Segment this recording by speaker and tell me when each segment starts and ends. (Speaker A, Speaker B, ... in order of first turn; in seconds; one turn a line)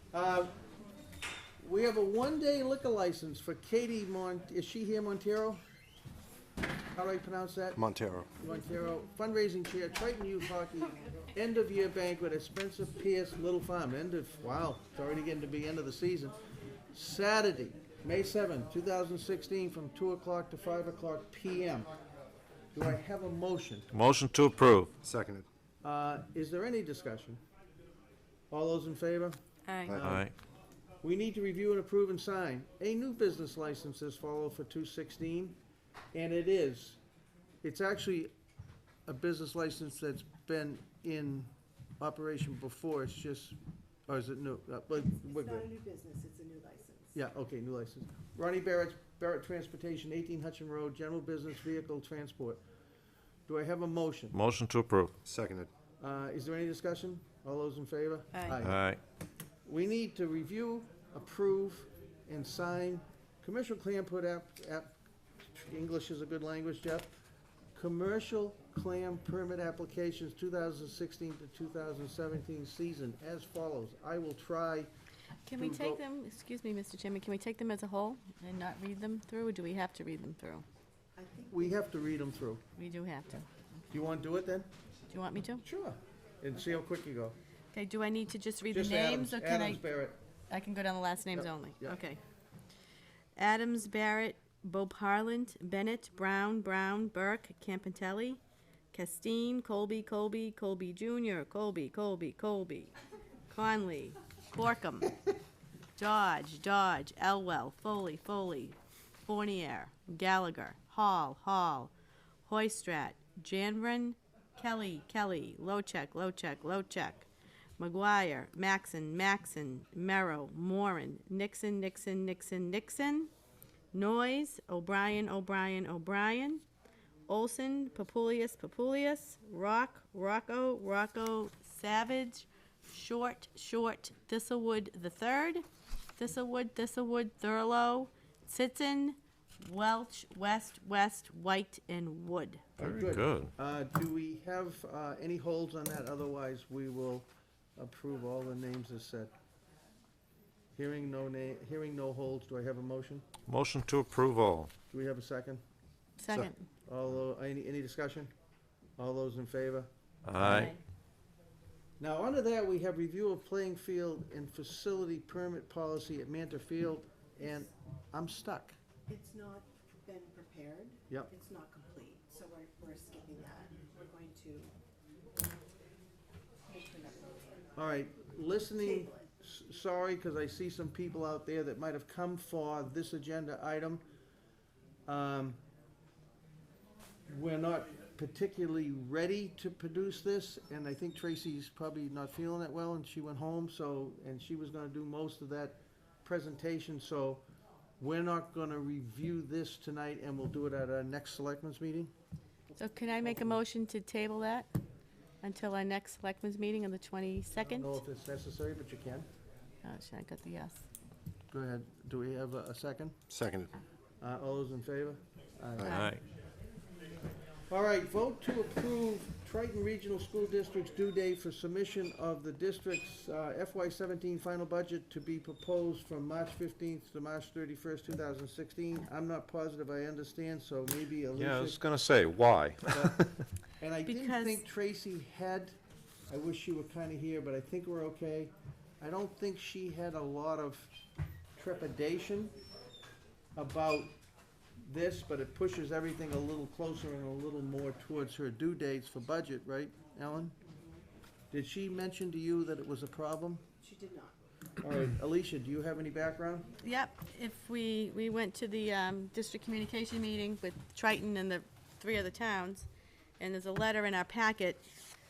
Speaker A: 0.1-0.6
Speaker A: 1.6-5.6
Speaker A: 6.9-7.8
Speaker B: 7.8-8.3
Speaker A: 8.3-16.4
Speaker A: 16.9-21.9
Speaker A: 22.7-23.9
Speaker C: 23.9-24.9
Speaker B: 25.0-25.5
Speaker A: 25.8-27.4
Speaker A: 28.5-29.4
Speaker D: 29.7-30.0
Speaker B: 29.9-30.3
Speaker C: 30.0-30.3
Speaker A: 31.0-35.6
Speaker A: 36.1-37.0
Speaker A: 37.6-38.3
Speaker A: 39.1-43.6
Speaker A: 44.1-45.7
Speaker E: 45.1-47.2
Speaker A: 47.1-52.6
Speaker A: 53.5-54.4
Speaker C: 54.3-55.1
Speaker B: 55.2-55.7
Speaker A: 56.0-58.8
Speaker D: 58.3-58.6
Speaker C: 58.6-59.0
Speaker A: 59.7-64.9
Speaker A: 65.5-67.1
Speaker A: 67.8-74.9
Speaker D: 75.5-80.7
Speaker A: 75.6-76.0
Speaker E: 81.2-81.8
Speaker A: 81.5-82.6
Speaker D: 82.8-83.5
Speaker A: 83.9-84.7
Speaker D: 85.1-85.6
Speaker A: 85.6-87.4
Speaker D: 87.7-89.8
Speaker A: 88.7-90.2
Speaker D: 90.5-92.2
Speaker A: 91.3-92.0
Speaker D: 93.4-98.4
Speaker D: 98.9-102.9
Speaker D: 103.5-105.2
Speaker D: 106.0-111.9
Speaker D: 112.5-117.3
Speaker D: 117.8-123.3
Speaker D: 123.9-126.6
Speaker D: 127.3-135.7
Speaker D: 136.2-142.7
Speaker C: 142.8-143.5
Speaker A: 142.8-149.3
Speaker A: 150.8-153.2
Speaker C: 153.5-154.7
Speaker A: 154.9-155.6
Speaker D: 156.2-156.7
Speaker A: 156.8-158.3
Speaker A: 159.0-160.7
Speaker C: 160.2-160.7
Speaker D: 160.4-160.8
Speaker A: 162.0-168.8
Speaker E: 169.1-174.7
Speaker E: 176.7-177.6
Speaker A: 177.8-184.0
Speaker E: 178.8-179.1
Speaker A: 185.1-185.6
Speaker A: 187.3-197.4
Speaker A: 198.0-202.1
Speaker E: 202.7-203.3
Speaker D: 202.8-204.7
Speaker D: 205.4-208.0
Speaker A: 207.6-209.3
Speaker D: 209.8-210.8
Speaker A: 211.5-213.2
Speaker B: 213.3-213.7
Speaker A: 214.2-215.9
Speaker B: 215.8-216.1
Speaker D: 215.8-216.2
Speaker C: 215.9-216.2
Speaker A: 217.7-231.9
Speaker C: 231.4-233.3
Speaker A: 232.9-235.8
Speaker D: 234.0-234.6
Speaker A: 236.3-240.9
Speaker A: 241.6-242.6
Speaker A: 243.6-244.1
Speaker A: 244.8-250.6
Speaker E: 250.7-251.0
Speaker A: 251.5-253.6
Speaker E: 253.8-254.4
Speaker A: 254.8-256.7
Speaker D: 256.8-262.9
Speaker D: 263.4-264.9